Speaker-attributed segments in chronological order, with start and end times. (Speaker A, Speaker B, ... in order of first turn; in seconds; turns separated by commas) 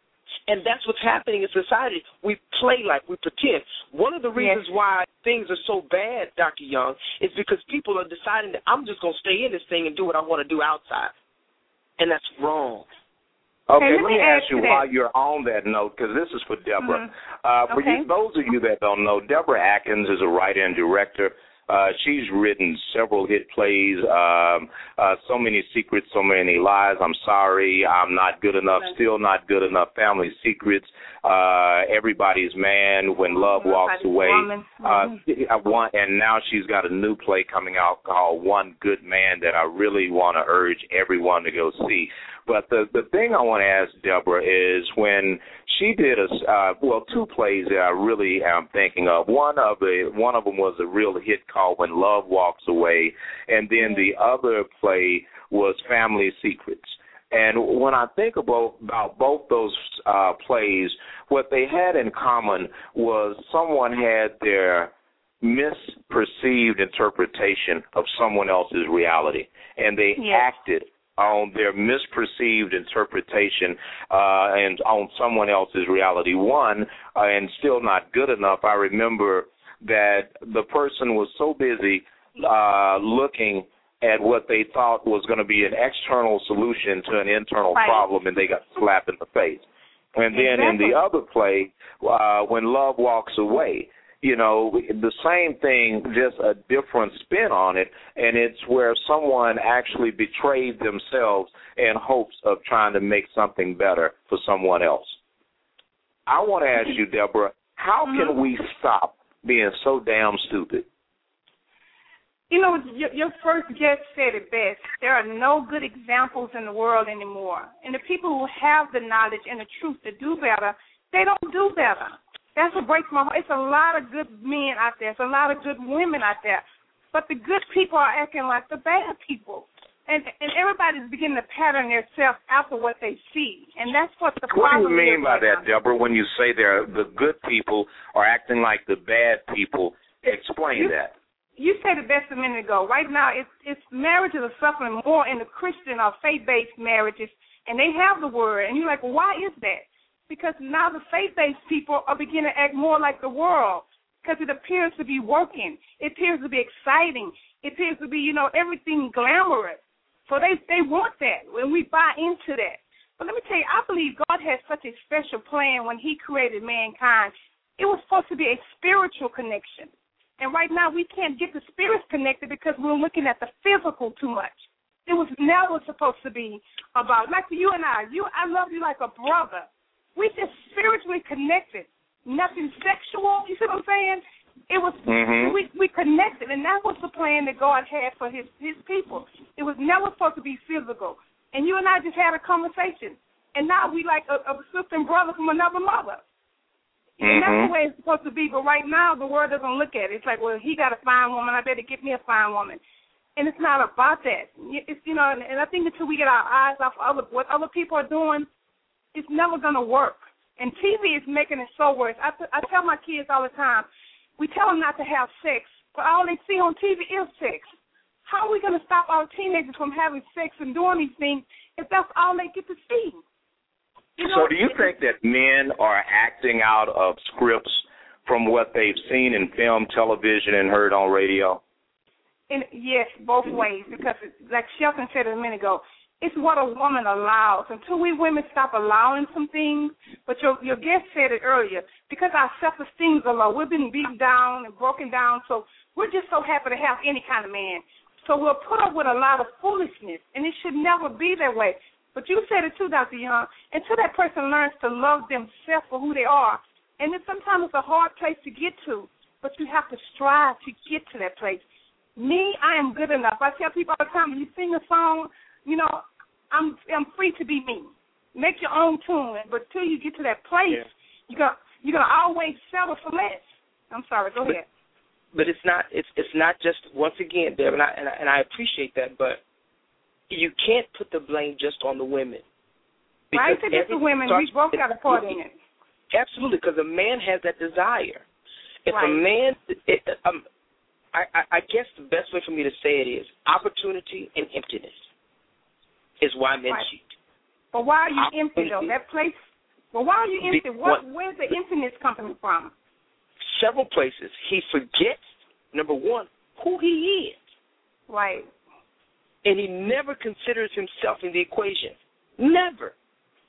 Speaker A: 0.5-11.1, Speaker B: 4.4-4.6, Speaker A: 12.0-12.8, Speaker C: 13.7-64.9, Speaker B: 13.7-14.8, Speaker B: 16.8-17.1, Speaker B: 17.7-18.1, Speaker B: 33.2-35.2, Speaker C: 65.4-89.6, Speaker B: 70.2-70.5, Speaker B: 87.7-88.0, Speaker C: 90.1-105.2, Speaker B: 90.3-91.0, Speaker C: 106.3-110.8, Speaker B: 112.5-135.6, Speaker C: 134.5-141.1, Speaker B: 141.6-196.2, Speaker C: 185.1-185.6, Speaker B: 197.2-202.8, Speaker C: 197.2-197.7, Speaker B: 203.3-208.5, Speaker B: 209.1-213.9, Speaker B: 214.4-217.6, Speaker B: 218.2-223.2, Speaker B: 224.2-224.9, Speaker C: 224.2-231.6, Speaker B: 232.5-261.6, Speaker B: 262.1-274.6, Speaker A: 275.3-279.4, Speaker A: 280.3-282.4, Speaker A: 283.3-285.4, Speaker B: 283.3-285.5, Speaker A: 286.1-288.2, Speaker A: 288.9-290.4, Speaker B: 288.9-289.2, Speaker A: 291.1-295.1, Speaker A: 296.2-297.1, Speaker B: 297.7-299.4, Speaker A: 298.1-298.9, Speaker B: 299.9-302.7, Speaker A: 300.4-301.0, Speaker A: 303.5-305.2, Speaker A: 305.7-307.4, Speaker B: 308.1-308.5, Speaker A: 309.4-312.9